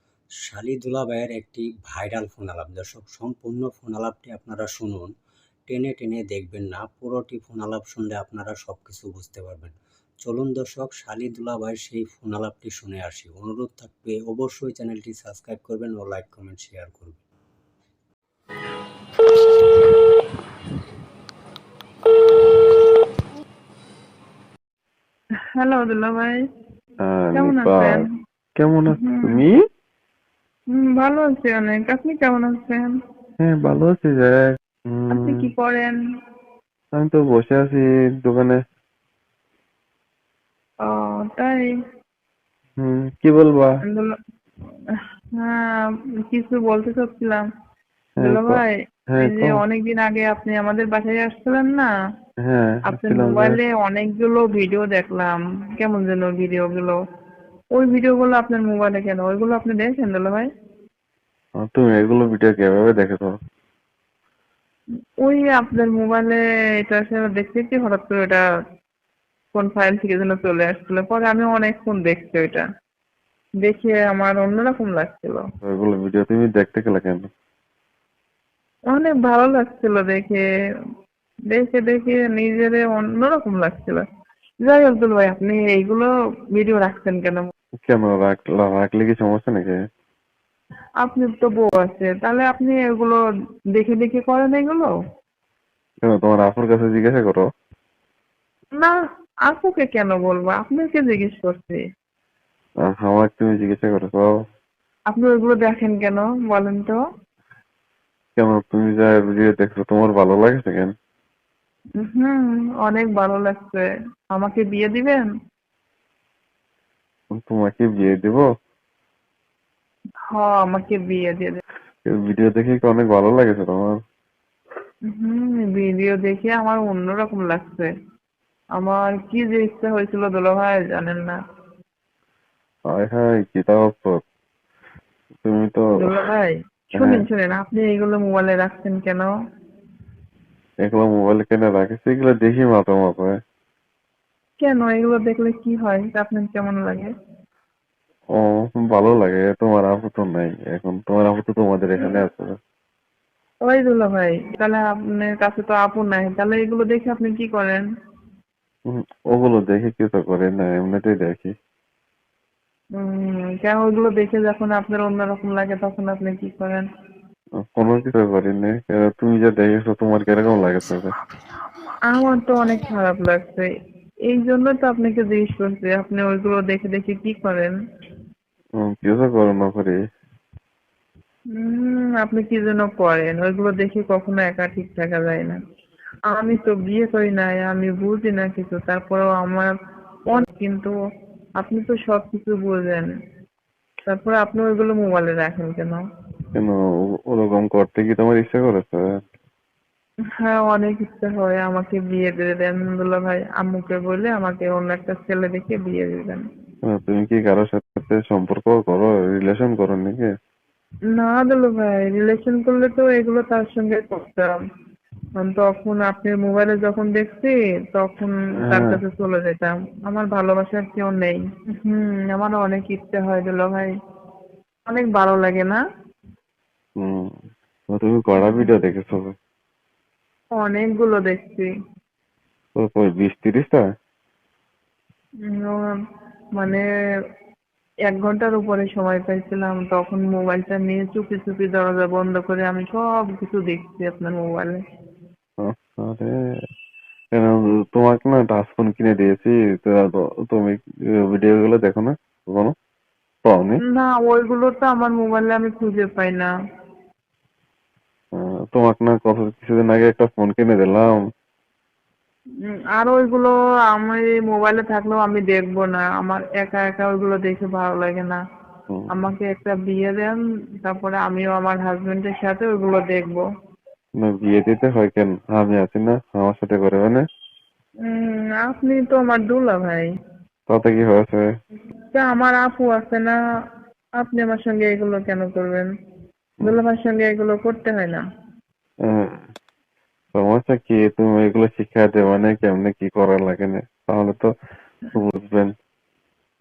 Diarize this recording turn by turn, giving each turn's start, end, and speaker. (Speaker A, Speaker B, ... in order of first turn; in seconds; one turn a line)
Speaker A: 0.5-5.1
Speaker A: 5.7-17.2
Speaker B: 25.6-26.4
Speaker C: 27.0-28.0
Speaker B: 27.3-28.1
Speaker C: 28.6-29.6
Speaker B: 28.9-29.4
Speaker B: 30.7-32.9
Speaker C: 33.4-35.5
Speaker B: 35.1-36.0
Speaker C: 37.0-38.6
Speaker B: 40.8-41.7
Speaker C: 42.8-43.8
Speaker B: 43.9-44.1
Speaker B: 45.4-47.4
Speaker C: 48.2-48.6
Speaker B: 48.2-51.9
Speaker C: 49.1-49.6
Speaker C: 52.4-53.6
Speaker B: 52.9-57.0
Speaker B: 57.8-60.5
Speaker C: 61.6-63.4
Speaker B: 65.2-68.4
Speaker B: 69.5-72.6
Speaker B: 73.6-75.4
Speaker C: 75.7-77.3
Speaker B: 78.9-80.4
Speaker B: 81.5-84.0
Speaker B: 84.6-87.5
Speaker C: 87.8-89.8
Speaker B: 91.0-93.2
Speaker B: 93.8-95.0
Speaker C: 96.0-97.5
Speaker B: 99.5-101.8
Speaker C: 102.8-104.3
Speaker B: 105.1-107.0
Speaker C: 108.4-110.9
Speaker B: 112.0-115.3
Speaker C: 117.3-118.5
Speaker B: 120.3-121.6
Speaker C: 122.1-124.0
Speaker B: 125.1-127.9
Speaker B: 128.8-131.4
Speaker C: 132.9-134.2
Speaker C: 135.4-135.9
Speaker B: 136.0-139.3
Speaker C: 137.0-137.2
Speaker C: 140.8-143.4
Speaker B: 144.6-147.1
Speaker C: 148.4-152.6
Speaker B: 153.7-157.8
Speaker C: 158.9-161.5
Speaker B: 163.0-166.8
Speaker C: 167.8-171.1
Speaker B: 172.1-173.7
Speaker B: 174.3-177.7
Speaker C: 178.8-180.0
Speaker B: 181.6-185.6
Speaker B: 186.3-189.7
Speaker B: 190.3-190.9
Speaker B: 191.6-193.1
Speaker B: 194.1-196.0
Speaker C: 197.3-199.1
Speaker B: 200.4-206.4
Speaker C: 206.8-210.3
Speaker B: 211.1-214.6
Speaker B: 215.4-223.9
Speaker C: 218.6-218.9
Speaker B: 224.9-225.8
Speaker C: 227.0-227.3
Speaker C: 227.9-229.3
Speaker B: 228.4-228.7
Speaker B: 230.6-231.7
Speaker C: 232.8-233.8
Speaker B: 235.5-235.8
Speaker B: 236.6-236.8
Speaker B: 238.1-244.8
Speaker C: 245.6-246.3
Speaker C: 247.3-252.7
Speaker C: 253.4-253.8
Speaker B: 253.9-256.5
Speaker C: 258.4-261.1
Speaker B: 262.9-268.4
Speaker B: 269.1-273.4
Speaker C: 274.2-277.2
Speaker B: 278.1-280.1
Speaker C: 280.7-281.4
Speaker B: 282.1-283.4
Speaker B: 284.2-285.9
Speaker B: 286.6-288.2
Speaker C: 289.1-289.3
Speaker C: 290.3-294.5
Speaker C: 295.1-295.7